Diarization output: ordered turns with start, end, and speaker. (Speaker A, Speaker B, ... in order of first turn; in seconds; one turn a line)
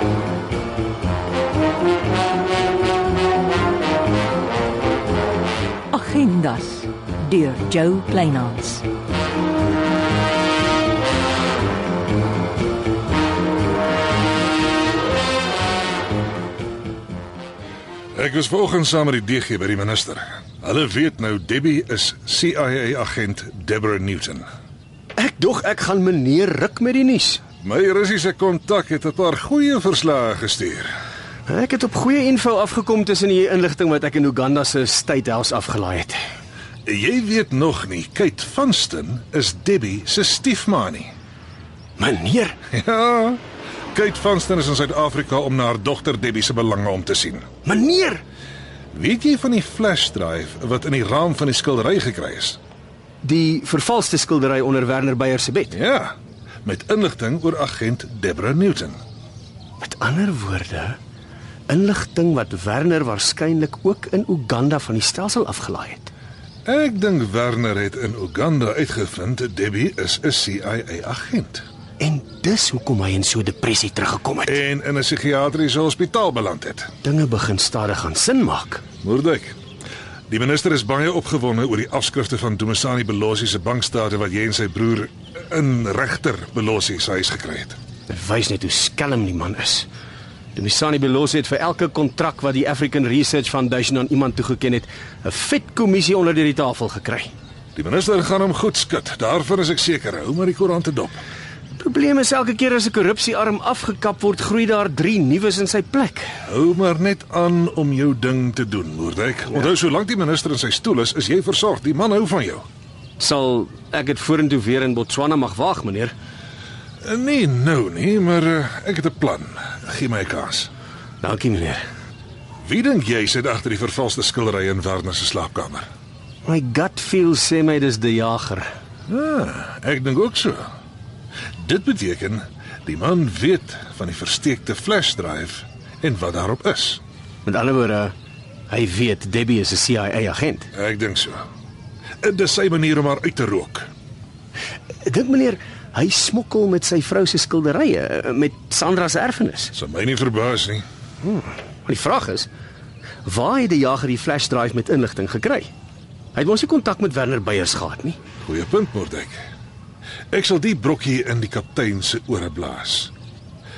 Speaker A: 5.9-8.8
Speaker B: 18.1-24.5
Speaker C: 25.1-27.4
Speaker B: 27.6-30.9
Speaker C: 31.5-36.2
Speaker B: 36.9-41.1
Speaker C: 42.0-42.6
Speaker B: 42.7-43.4
Speaker B: 43.9-47.5
Speaker C: 47.6-48.2
Speaker B: 48.9-52.6
Speaker C: 53.2-55.8
Speaker B: 55.7-59.0
Speaker C: 59.8-61.0
Speaker C: 61.7-66.1
Speaker B: 66.6-71.7
Speaker C: 72.0-74.6
Speaker B: 74.5-76.9
Speaker C: 77.0-78.9
Speaker B: 78.9-79.6
Speaker B: 80.3-87.8
Speaker C: 88.1-89.9
Speaker C: 90.5-97.3
Speaker B: 97.7-101.2
Speaker C: 101.8-106.3
Speaker B: 106.5-112.6
Speaker C: 113.2-116.1
Speaker B: 117.0-120.7
Speaker C: 121.2-121.8
Speaker B: 122.6-125.9
Speaker C: 126.4-128.7
Speaker B: 129.1-130.7
Speaker B: 131.6-137.0
Speaker C: 137.4-138.1
Speaker C: 138.7-140.7
Speaker B: 140.7-141.4
Speaker B: 142.2-143.9
Speaker C: 145.0-149.7
Speaker B: 149.7-150.8
Speaker C: 151.2-152.5
Speaker C: 153.2-155.7
Speaker C: 156.3-158.2
Speaker B: 158.4-159.4
Speaker B: 160.3-163.1